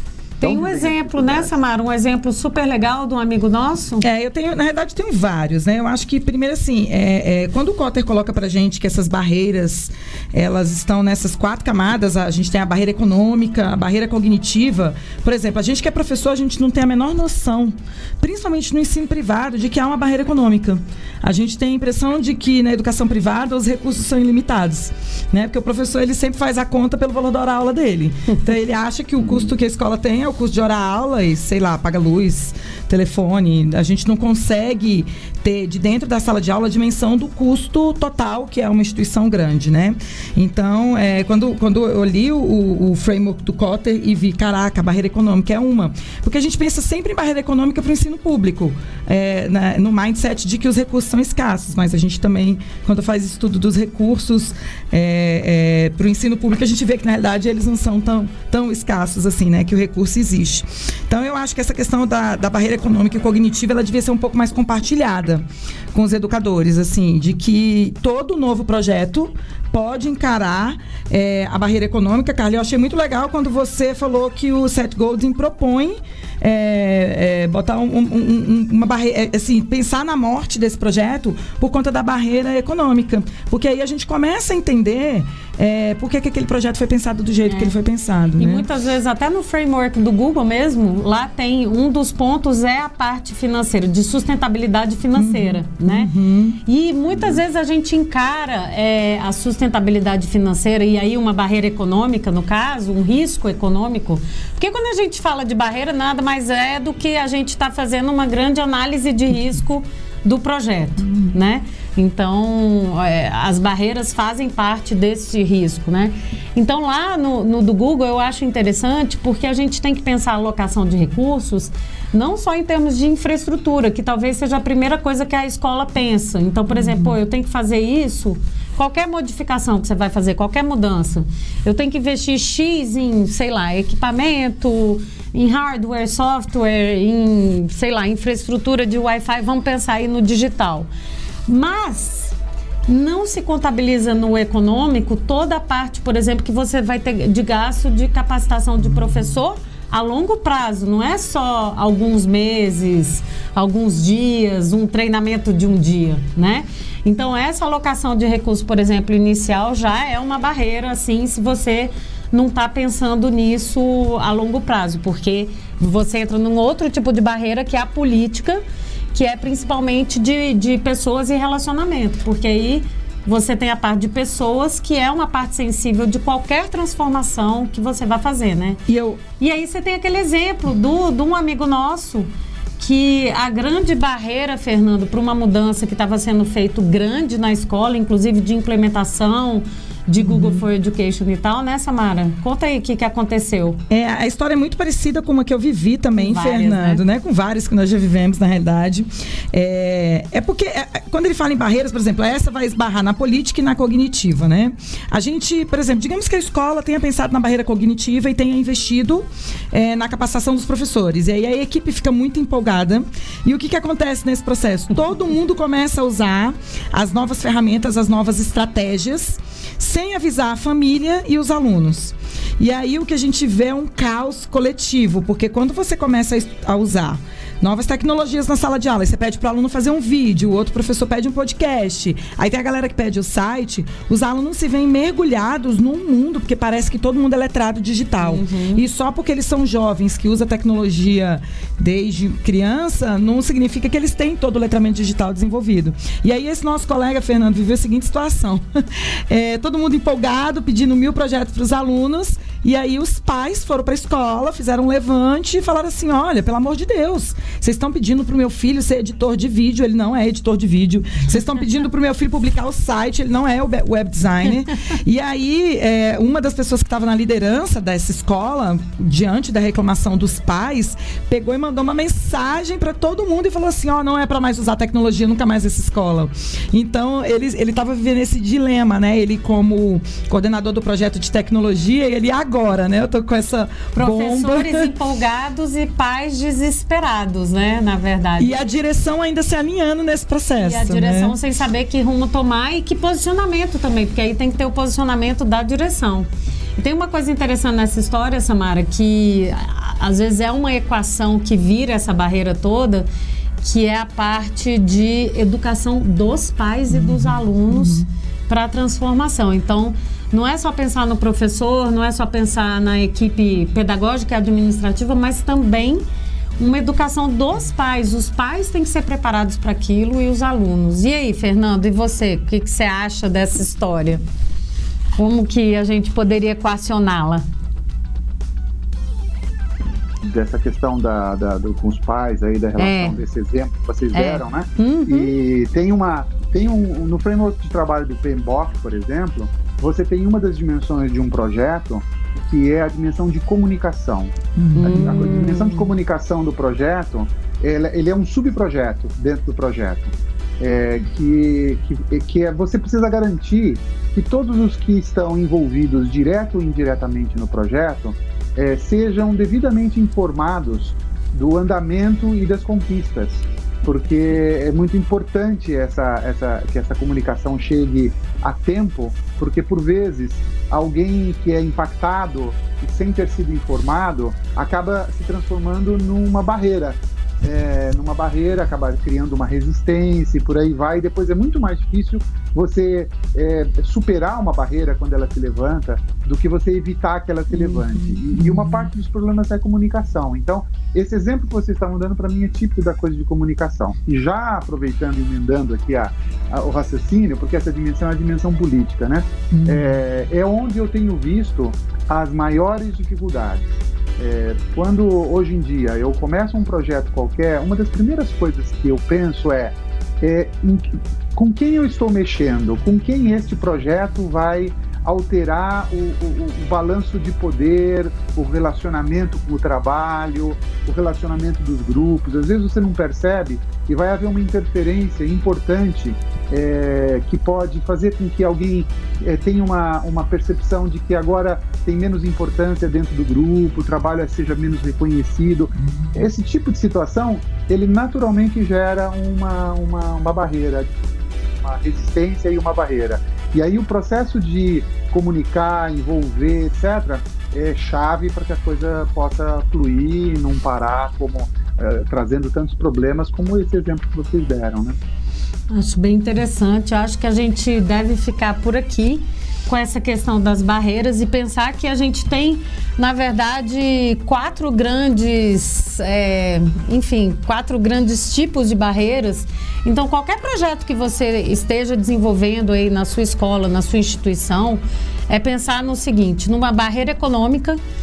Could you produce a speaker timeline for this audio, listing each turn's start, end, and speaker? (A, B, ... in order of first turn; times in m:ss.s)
0:00.4-0:01.6 A
0:00.4-0:04.0 B
0:04.0-1:28.6 C
1:27.5-1:27.7 B
1:28.4-1:36.1 B
1:35.1-1:36.6 C
1:36.6-2:20.9 B
1:37.1-1:37.4 A
2:06.7-2:07.1 C
2:21.5-2:22.4 B
2:22.9-2:48.6 B
2:49.1-2:58.8 B
2:58.9-2:59.2 C
2:59.4-3:13.8 B
3:10.2-3:10.6 C
3:13.9-4:44.9 C
3:16.1-3:17.0 B
3:58.2-3:58.8 B
4:44.0-4:48.6 B
4:48.4-4:51.3 C
4:50.6-5:03.1 B
5:03.6-5:16.0 B
5:06.9-5:08.0 C
5:16.6-5:24.2 B
5:25.2-5:27.4 B
5:30.2-7:35.0 A
5:32.8-5:33.2 B
5:34.1-5:35.3 B
5:44.6-5:45.3 C
5:44.8-5:45.9 B
6:27.5-6:28.9 C
6:39.5-6:39.9 C
7:35.7-7:57.8 B